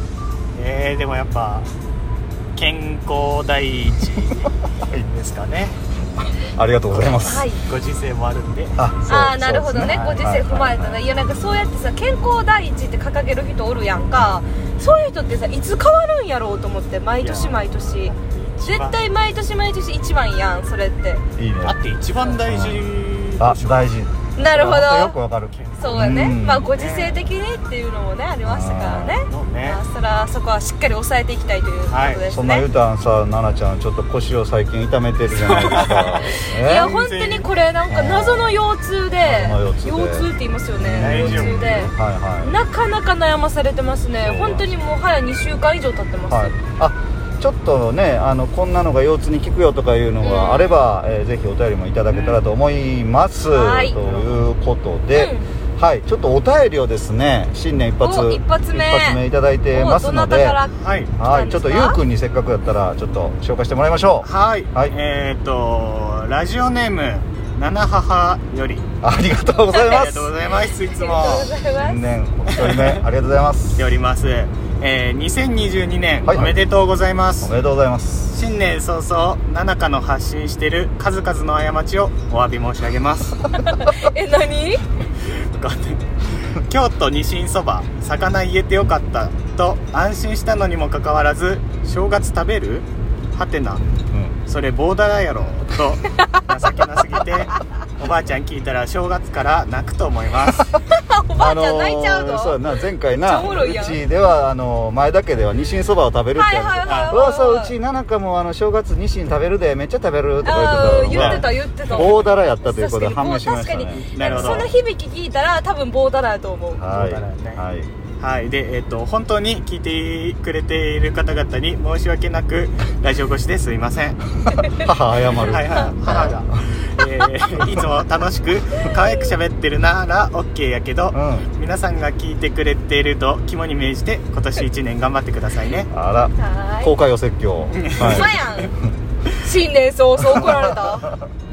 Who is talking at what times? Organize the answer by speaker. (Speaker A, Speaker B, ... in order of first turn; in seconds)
Speaker A: 0.5-1.7, 2.5-5.8, 6.9-8.8, 9.8-10.4, 17.2-19.0, 21.6-23.9, 25.5-27.3, 29.2-29.8, 31.9-32.2, 35.4-37.5, 41.0-41.9, 52.1-52.5, 54.0-54.4, 60.8-61.2, 64.2-68.9, 69.7-71.5, 72.5-73.0, 73.8-77.5, 78.3-83.5, 85.2-93.8, 94.5-100.7, 106.8-107.2, 110.9-112.2, 114.1-114.7, 116.9-117.6, 118.2-124.2, 125.3-135.9, 137.7-138.6
Speaker B: 4.8-5.1, 6.2-7.5, 8.8-11.0, 21.4-21.8, 22.5-22.9, 23.4-26.7, 28.4-29.2, 32.3-37.0, 37.9-38.6, 39.2-42.5, 44.2-44.7, 46.3-60.6, 61.2-64.9, 69.0-70.3, 71.7-73.9, 76.2-76.5, 77.4-78.3, 94.1-94.4, 101.4-114.7, 116.8-117.9, 124.7-126.5, 131.1-131.5, 135.9-138.7, 140.2-141.1
Speaker C: 7.2-7.7, 9.1-21.2, 24.4-25.2, 25.7-32.7, 36.4-46.6, 50.2-50.8, 53.4-54.0, 55.1-55.5, 58.0-62.0, 70.4-72.0, 83.5-84.8, 96.2-96.5, 100.8-104.0, 106.3-107.8, 110.4-116.8, 124.5-124.8, 136.4-136.9, 137.9-138.8, 139.3-141.2